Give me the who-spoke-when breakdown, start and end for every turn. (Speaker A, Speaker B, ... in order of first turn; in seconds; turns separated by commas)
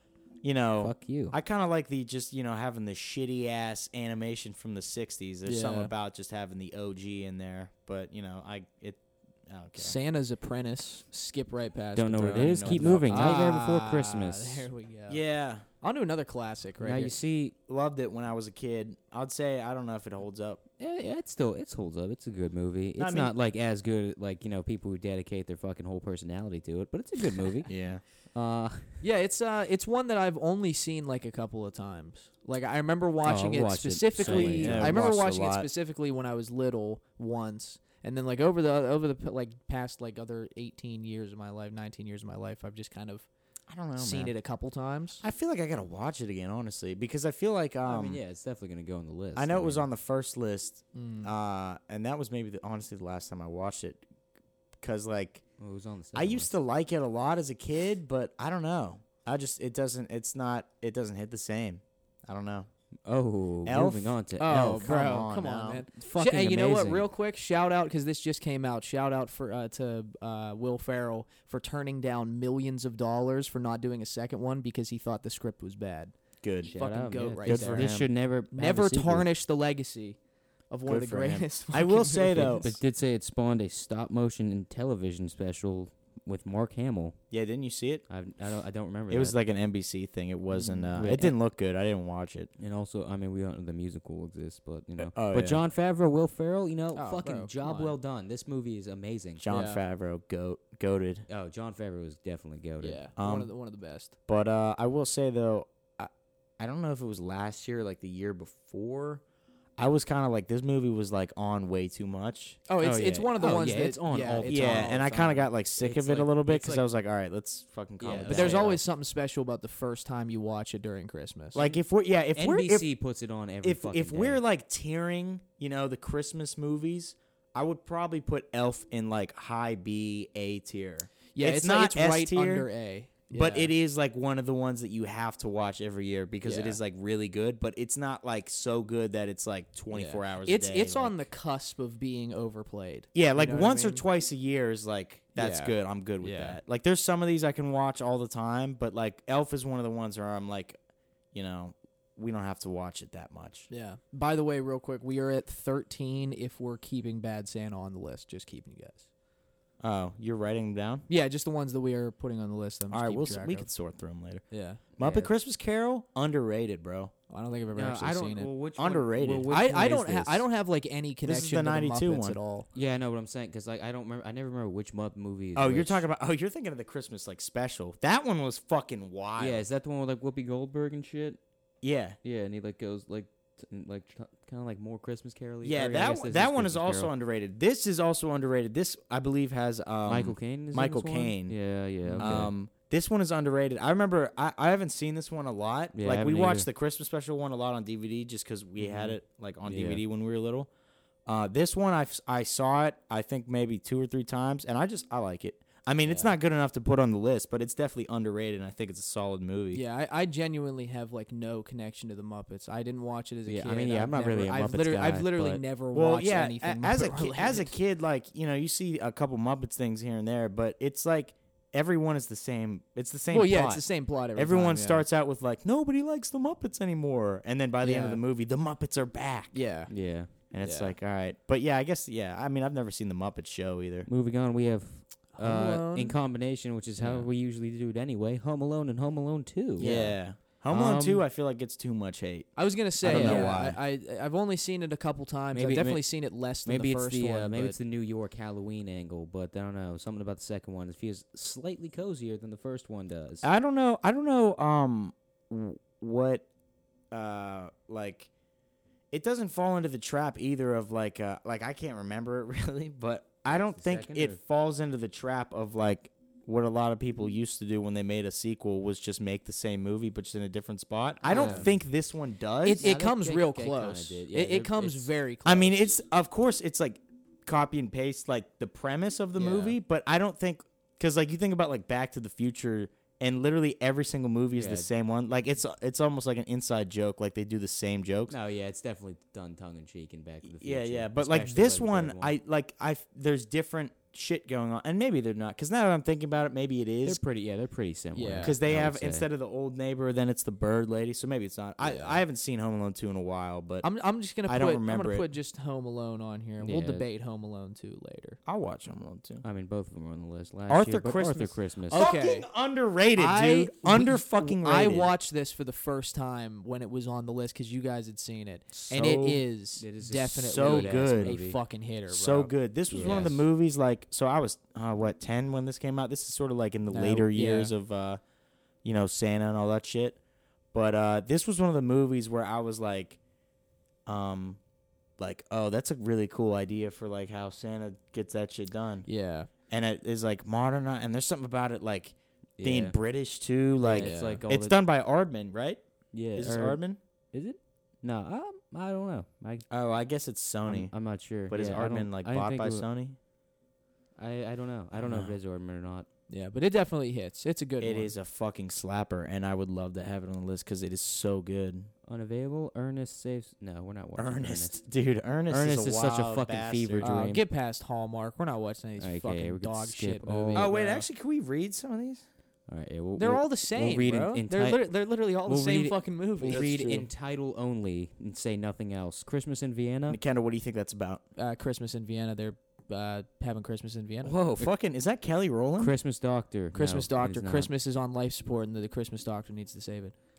Speaker A: 0.4-10.0, Speaker B: 0.8-1.4, Speaker C: 5.5-5.9, Speaker C: 9.8-15.2, Speaker B: 12.0-14.7, Speaker A: 12.2-13.4, Speaker A: 15.1-15.7, Speaker C: 15.8-17.1, Speaker B: 16.8-17.6, Speaker A: 17.7-20.6, Speaker B: 20.8-27.7, Speaker A: 23.0-23.3, Speaker A: 27.7-28.0, Speaker B: 28.3-29.0, Speaker C: 29.0-43.3, Speaker B: 33.2-35.0, Speaker A: 34.2-35.7, Speaker A: 43.7-44.3, Speaker C: 44.0-45.2, Speaker A: 45.2-48.2, Speaker B: 47.9-49.9, Speaker A: 49.4-54.0, Speaker C: 50.9-51.3, Speaker A: 54.8-55.4, Speaker B: 55.6-56.5, Speaker A: 56.1-62.7, Speaker B: 63.0-64.8, Speaker A: 63.6-65.8, Speaker C: 64.4-77.9, Speaker B: 66.0-67.1, Speaker A: 76.4-76.7, Speaker B: 76.7-79.3, Speaker A: 77.4-78.1, Speaker C: 78.5-80.2, Speaker C: 80.7-82.7, Speaker A: 80.9-82.8, Speaker B: 82.4-87.2, Speaker A: 87.3-88.0, Speaker B: 88.1-89.4, Speaker A: 89.1-92.5, Speaker C: 90.5-90.9, Speaker B: 91.0-91.3, Speaker B: 92.6-99.4, Speaker A: 95.0-95.6, Speaker C: 97.0-98.0, Speaker A: 99.4-101.2, Speaker C: 99.5-99.8, Speaker B: 101.3-103.0, Speaker C: 102.8-104.1, Speaker A: 103.2-103.5, Speaker A: 104.3-109.2, Speaker A: 109.8-112.6, Speaker C: 112.7-116.8, Speaker B: 112.8-115.1, Speaker A: 114.5-118.8, Speaker B: 118.0-118.8, Speaker C: 118.1-121.8, Speaker A: 121.5-122.9, Speaker B: 122.4-124.4, Speaker A: 123.6-132.7, Speaker C: 131.3-133.7, Speaker A: 133.3-141.2, Speaker C: 136.4-136.8, Speaker C: 139.9-144.0, Speaker A: 143.1-150.8, Speaker C: 145.4-146.6, Speaker A: 151.3-153.7, Speaker C: 153.7-159.1, Speaker A: 159.8-161.1, Speaker C: 161.1-163.7, Speaker A: 162.9-167.1, Speaker C: 164.5-165.2, Speaker C: 167.3-168.5, Speaker B: 167.7-170.4, Speaker A: 168.8-169.5, Speaker C: 169.5-172.7, Speaker A: 171.2-172.4, Speaker B: 172.7-176.1, Speaker A: 175.6-179.6, Speaker B: 179.4-181.4, Speaker A: 181.8-182.2, Speaker B: 182.2-187.1, Speaker A: 185.6-200.7, Speaker B: 190.1-192.5, Speaker C: 192.0-192.5, Speaker B: 195.9-196.7, Speaker B: 199.7-200.0, Speaker A: 201.3-209.8, Speaker C: 209.7-217.8, Speaker B: 213.5-215.6, Speaker A: 215.9-229.6, Speaker C: 223.3-225.1, Speaker C: 227.8-228.2, Speaker C: 229.5-230.0, Speaker B: 229.9-230.3, Speaker A: 230.5-234.1, Speaker C: 230.6-230.9, Speaker B: 234.1-241.2, Speaker C: 235.3-236.2, Speaker A: 237.0-237.3, Speaker A: 239.8-243.8, Speaker C: 239.8-240.2, Speaker C: 242.6-247.8, Speaker B: 243.1-243.5, Speaker B: 245.5-253.5, Speaker A: 253.4-256.5, Speaker A: 257.1-258.3, Speaker A: 259.1-272.9, Speaker B: 263.5-264.4, Speaker B: 271.2-271.7, Speaker C: 271.2-271.7, Speaker C: 272.6-275.9, Speaker B: 272.8-275.1, Speaker A: 275.4-288.4, Speaker C: 279.4-279.8, Speaker B: 284.5-284.9, Speaker B: 288.3-292.4, Speaker A: 290.5-297.2, Speaker B: 297.1-299.3, Speaker C: 298.1-298.6, Speaker A: 298.4-303.9, Speaker C: 301.8-302.2, Speaker C: 303.8-308.4, Speaker A: 304.4-305.2, Speaker B: 306.6-307.1, Speaker A: 308.5-309.4, Speaker B: 309.4-312.1, Speaker A: 310.7-315.1, Speaker C: 311.9-312.5, Speaker C: 313.1-323.3, Speaker A: 318.7-319.4, Speaker B: 319.8-321.6, Speaker A: 320.4-321.4, Speaker A: 322.1-328.2, Speaker B: 322.9-323.4, Speaker C: 326.9-327.7, Speaker A: 328.8-330.2, Speaker A: 330.7-333.2, Speaker A: 334.1-334.6, Speaker A: 335.2-339.1, Speaker C: 339.1-339.5, Speaker A: 339.7-347.0, Speaker B: 342.6-343.0, Speaker B: 343.8-344.8, Speaker C: 343.9-344.4, Speaker B: 346.1-349.7, Speaker A: 349.7-350.9, Speaker B: 350.7-352.9, Speaker A: 351.5-353.2, Speaker B: 354.2-356.1, Speaker A: 354.9-355.4, Speaker C: 356.3-358.1, Speaker A: 357.8-361.9, Speaker B: 362.1-364.8, Speaker A: 364.2-367.2, Speaker B: 365.5-367.4, Speaker C: 367.0-371.1, Speaker B: 369.0-370.7, Speaker A: 370.5-372.3, Speaker B: 372.7-380.2, Speaker C: 373.2-376.7, Speaker A: 376.5-377.1, Speaker A: 380.1-381.2, Speaker C: 381.4-384.4, Speaker A: 384.2-385.9, Speaker B: 385.8-387.7, Speaker C: 386.7-390.1